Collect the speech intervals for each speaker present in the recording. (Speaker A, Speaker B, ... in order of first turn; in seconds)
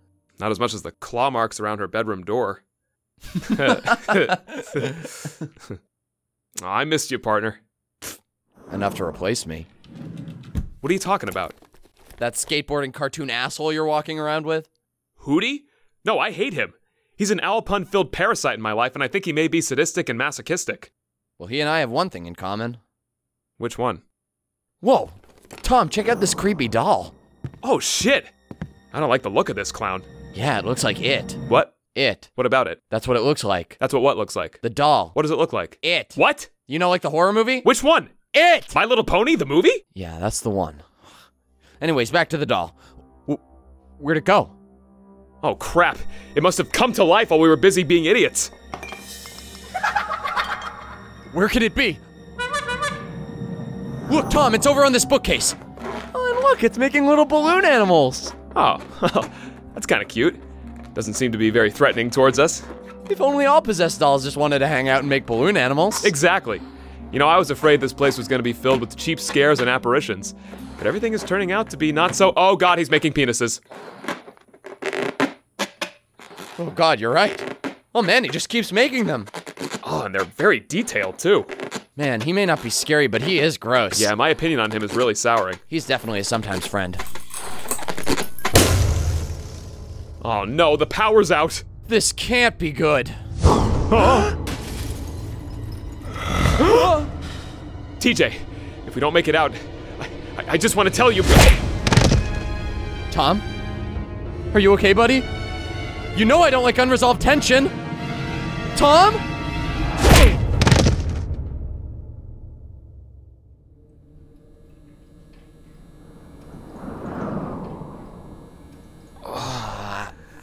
Speaker A: 0.4-2.6, 3.4-5.0, 6.6-7.6, 10.8-11.6, 15.2-20.9, 23.6-24.0, 27.6-28.3, 28.9-30.1, 31.5-31.8, 32.4-32.8, 33.8-34.6, 35.1-36.5, 37.6-38.1, 38.7-39.8, 45.4-48.5, 58.5-60.4, 61.0-62.6, 66.0-73.6, 79.8-81.5, 84.0-85.6, 90.2-91.6, 93.9-94.3, 98.0-101.6
Speaker B: 8.7-9.7, 12.2-14.7, 21.4-22.8, 24.8-27.1, 30.3-31.4, 31.9-32.3, 32.9-33.8, 34.6-35.2, 35.8-36.2, 36.7-37.7, 38.3-38.8, 40.0-40.9, 41.8-43.4, 44.0-44.5, 51.3-52.0, 54.1-55.6, 56.1-58.3, 63.1-66.1, 76.6-79.3, 82.0-84.1, 85.7-87.0, 91.9-93.2, 96.6-97.1, 103.1-103.5, 104.5-105.3, 106.1-107.8, 108.8-109.2, 119.3-120.1